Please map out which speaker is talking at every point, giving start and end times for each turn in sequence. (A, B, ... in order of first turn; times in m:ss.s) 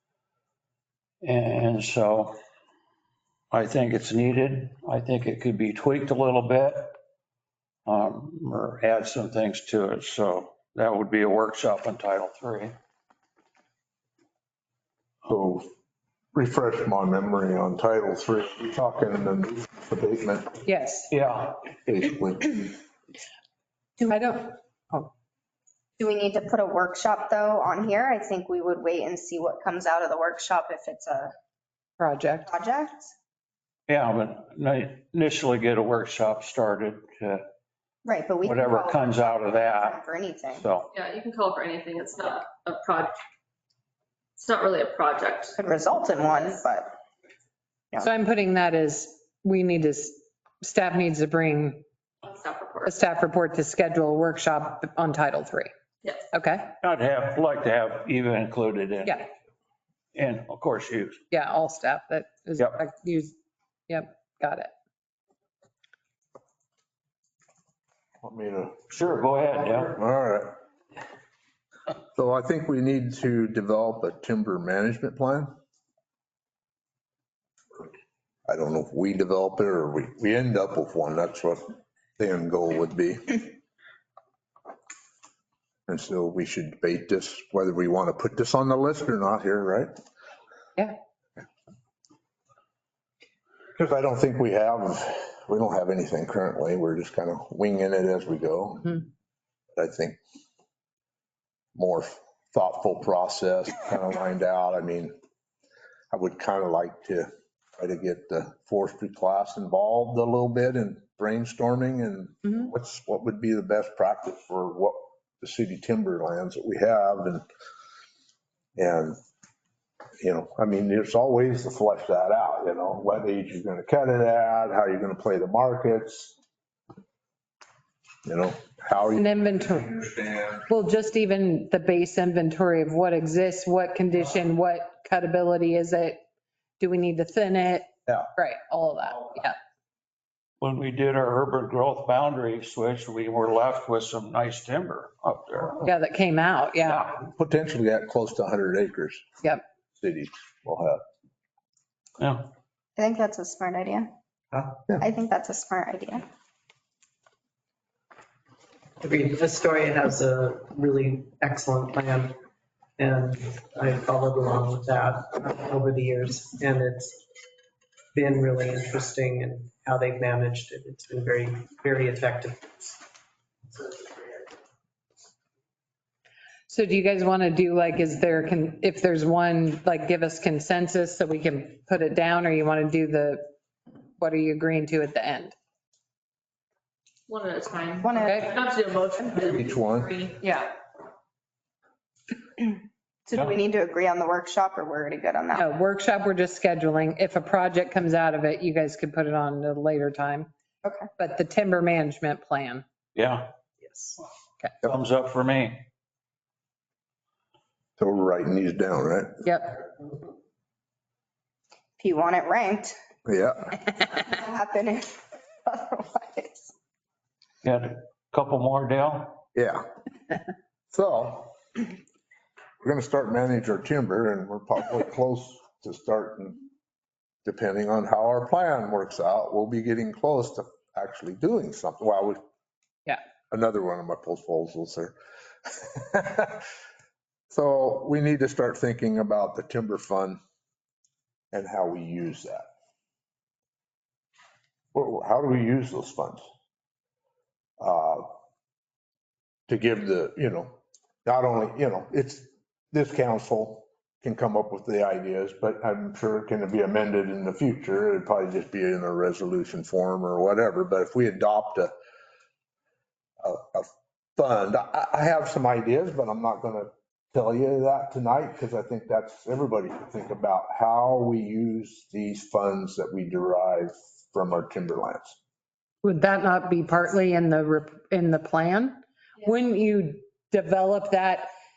0:01.2-0:02.3 A
0:03.5-0:07.0 A
0:07.8-0:12.7 A
0:15.2-0:15.7 B
0:16.3-0:20.6 B
0:20.6-0:21.1 C
0:21.1-0:21.6 A
0:21.8-0:22.7 B
0:24.0-0:25.1 C
0:26.0-0:31.3 D
0:32.0-0:32.5 C
0:32.4-0:33.1 D
0:33.9-0:37.4 A
0:38.0-0:40.6 D
0:38.4-0:40.9 A
0:40.9-0:43.2 E
0:44.4-0:45.6 E
0:45.6-0:46.9 D
0:48.0-0:51.8 C
0:52.2-0:53.0 E
0:52.8-0:55.7 C
0:56.3-0:56.7 C
0:56.8-0:59.3 A
1:00.1-1:01.2 A
1:01.3-1:03.3 C
1:03.9-1:04.7 C
1:08.2-1:08.8 B
1:08.9-1:10.0 A
1:09.9-1:10.6 B
1:12.1-1:15.5 B
1:18.5-1:23.5 B
1:25.9-1:29.9 B
1:33.8-1:39.0 B
1:39.8-1:40.2 B
1:41.7-1:45.1 B
1:46.1-1:57.4 B
1:58.8-1:59.2 B
2:00.2-2:06.4 B
2:08.2-2:09.2 B
2:09.1-2:10.0 C
2:10.6-2:16.2 C
2:16.8-2:19.5 C
2:20.6-2:25.9 A
2:25.8-2:27.1 C
2:26.8-2:27.2 A
2:27.2-2:29.3 B
2:30.0-2:31.0 B
2:32.2-2:32.5 A
2:33.0-2:34.1 D
2:35.0-2:36.2 D
2:39.0-2:42.4 F
2:43.0-2:47.2 F
2:48.1-2:53.0 F
2:53.7-2:54.4 F
2:56.7-3:03.4 C
3:04.2-3:05.5 C
3:07.3-3:10.7 E
3:08.0-3:08.5 D
3:08.2-3:08.5 C
3:09.4-3:10.2 B
3:13.3-3:15.7 D
3:15.5-3:20.5 C
3:20.8-3:21.1 D
3:21.2-3:22.8 C
3:23.1-3:23.5 A
3:24.8-3:25.8 A
3:28.0-3:29.4 B
3:29.4-3:29.8 C
3:32.0-3:33.0 D
3:33.2-3:33.8 B
3:34.1-3:36.7 D
3:37.6-3:39.4 A
3:39.5-3:39.8 B
3:40.9-3:41.5 B
3:42.8-3:46.6 B
3:47.4-3:52.4 B
3:53.5-3:55.1 B
3:55.6-3:56.6 B
3:57.5-4:00.4 B
4:01.5-4:02.7 B
4:04.9-4:06.4 B
4:07.8-4:08.3 B
4:09.7-4:21.9 B
4:23.4-4:35.4 B
4:36.0-4:41.5 C